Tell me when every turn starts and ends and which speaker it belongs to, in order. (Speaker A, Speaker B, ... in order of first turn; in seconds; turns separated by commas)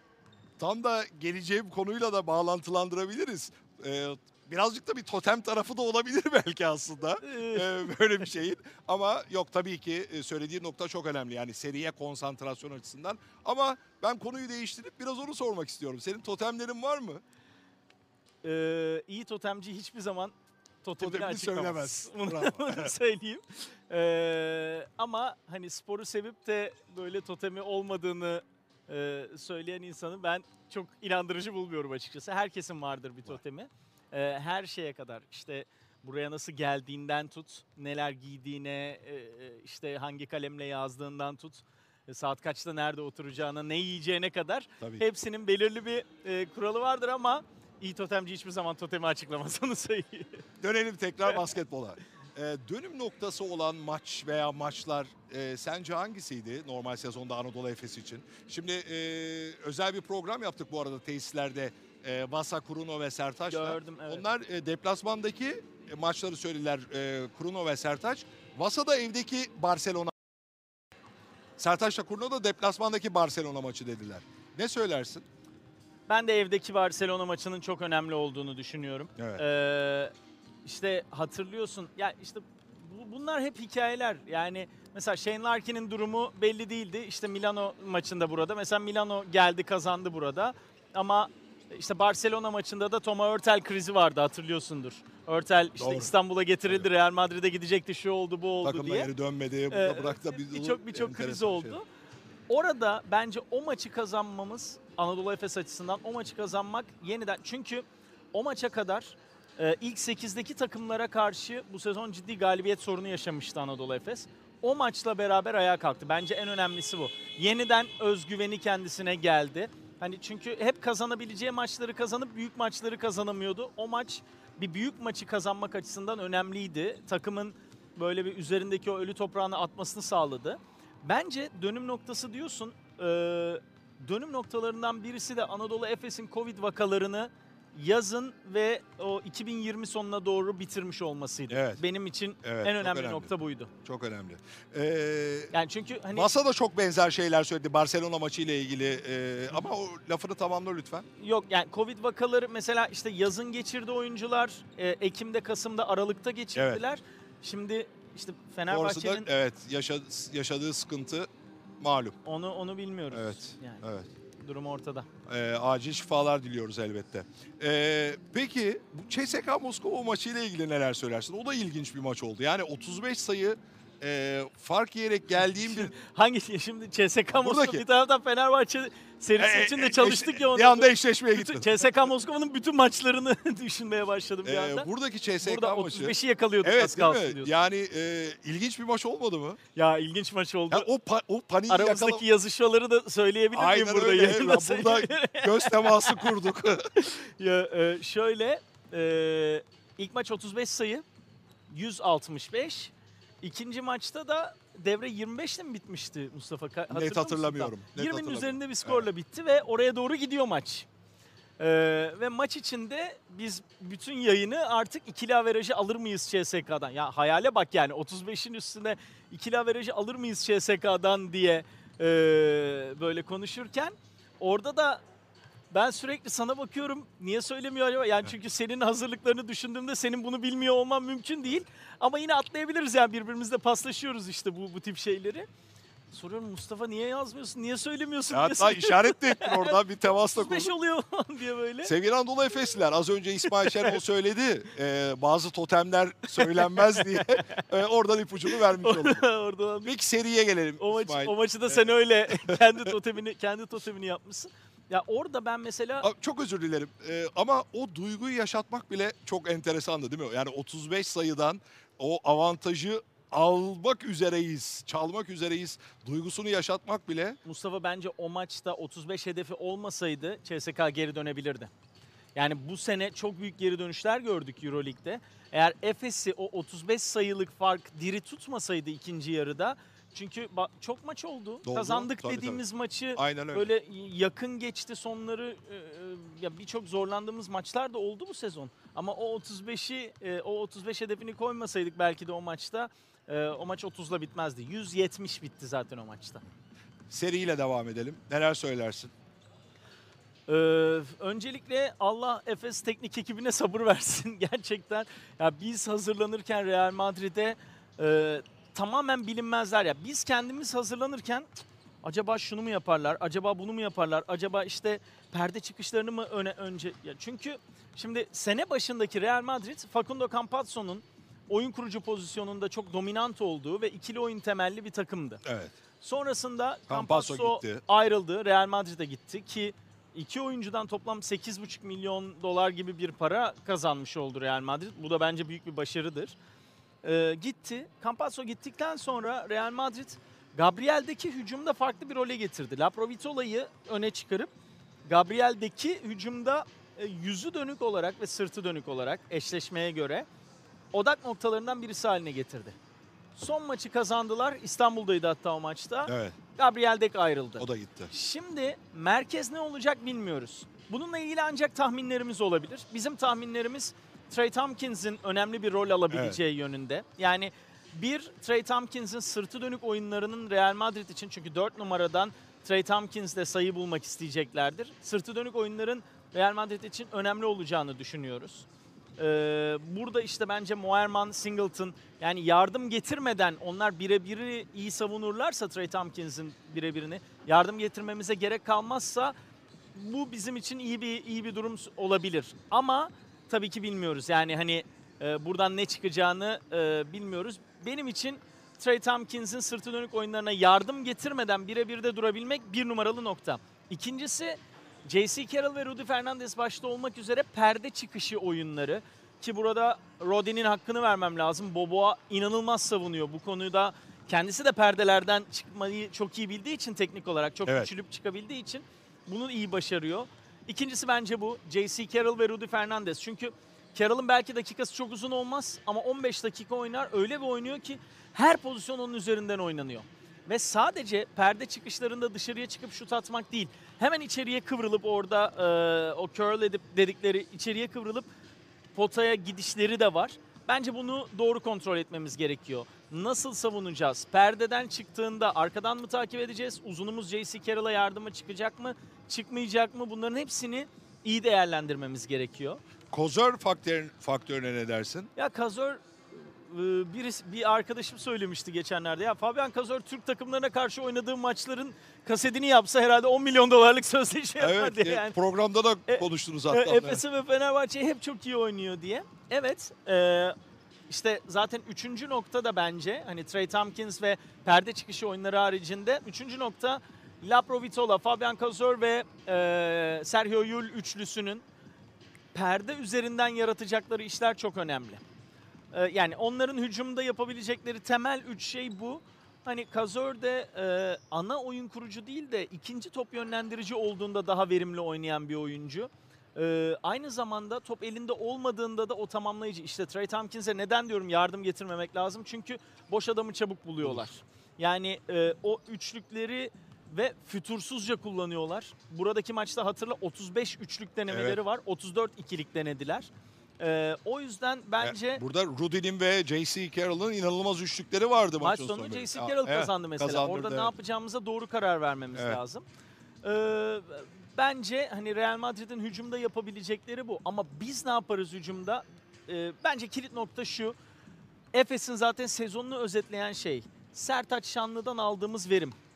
Speaker A: 0.6-17.2, Speaker B: 7.2-7.9, Speaker B: 18.4-50.4, Speaker A: 21.0-22.9, Speaker A: 50.6-70.1, Speaker B: 63.5-64.2, Speaker A: 71.6-75.2, Speaker B: 76.1-80.1, Speaker A: 79.2-79.4, Speaker B: 80.7-99.1, Speaker A: 95.8-96.1, Speaker A: 98.6-101.8, Speaker B: 99.7-101.8, Speaker B: 102.5-143.7, Speaker A: 141.5-141.8, Speaker A: 142.4-143.3, Speaker A: 143.8-145.5, Speaker B: 145.5-146.3, Speaker A: 146.1-151.1, Speaker B: 151.2-159.3, Speaker A: 156.6-156.8, Speaker A: 158.7-161.3, Speaker A: 161.8-162.2, Speaker B: 162.2-163.8, Speaker A: 163.1-164.1, Speaker B: 164.4-165.1, Speaker A: 165.3-175.9, Speaker B: 175.4-184.9, Speaker A: 177.3-177.8, Speaker A: 179.4-181.8, Speaker A: 184.4-189.6, Speaker B: 185.4-187.5, Speaker B: 189.8-190.9, Speaker A: 190.7-192.2, Speaker B: 191.7-201.0, Speaker A: 193.5-196.9, Speaker B: 201.7-210.9, Speaker A: 206.9-209.1, Speaker B: 211.6-225.0, Speaker B: 225.7-235.5, Speaker B: 236.1-239.8, Speaker A: 238.3-240.7, Speaker B: 240.3-241.9, Speaker A: 241.8-249.2, Speaker B: 243.5-244.0, Speaker B: 246.4-247.6, Speaker B: 248.5-249.9, Speaker A: 249.8-252.9, Speaker B: 250.8-256.1, Speaker A: 256.0-267.4, Speaker B: 267.4-271.7, Speaker B: 272.4-296.4, Speaker A: 281.7-282.6, Speaker A: 283.2-283.7, Speaker A: 297.1-299.1, Speaker B: 300.5-311.5, Speaker B: 312.0-325.4, Speaker A: 325.4-325.7, Speaker B: 326.0-336.4, Speaker A: 326.9-327.8, Speaker B: 337.0-344.5, Speaker B: 345.1-350.3, Speaker B: 350.9-352.8, Speaker B: 353.4-378.7, Speaker A: 356.1-356.4, Speaker A: 357.6-358.1, Speaker A: 366.1-366.4, Speaker B: 379.2-389.4, Speaker B: 389.9-438.3, Speaker A: 417.7-417.9, Speaker B: 438.9-452.8, Speaker A: 453.1-455.3, Speaker B: 455.4-465.4, Speaker A: 464.6-467.2, Speaker B: 466.1-470.6, Speaker B: 471.1-481.6, Speaker B: 482.5-485.2, Speaker B: 485.9-513.3, Speaker A: 511.3-511.6, Speaker B: 513.8-515.4, Speaker A: 515.0-520.9, Speaker B: 518.6-522.9, Speaker B: 523.4-531.0, Speaker B: 531.7-536.0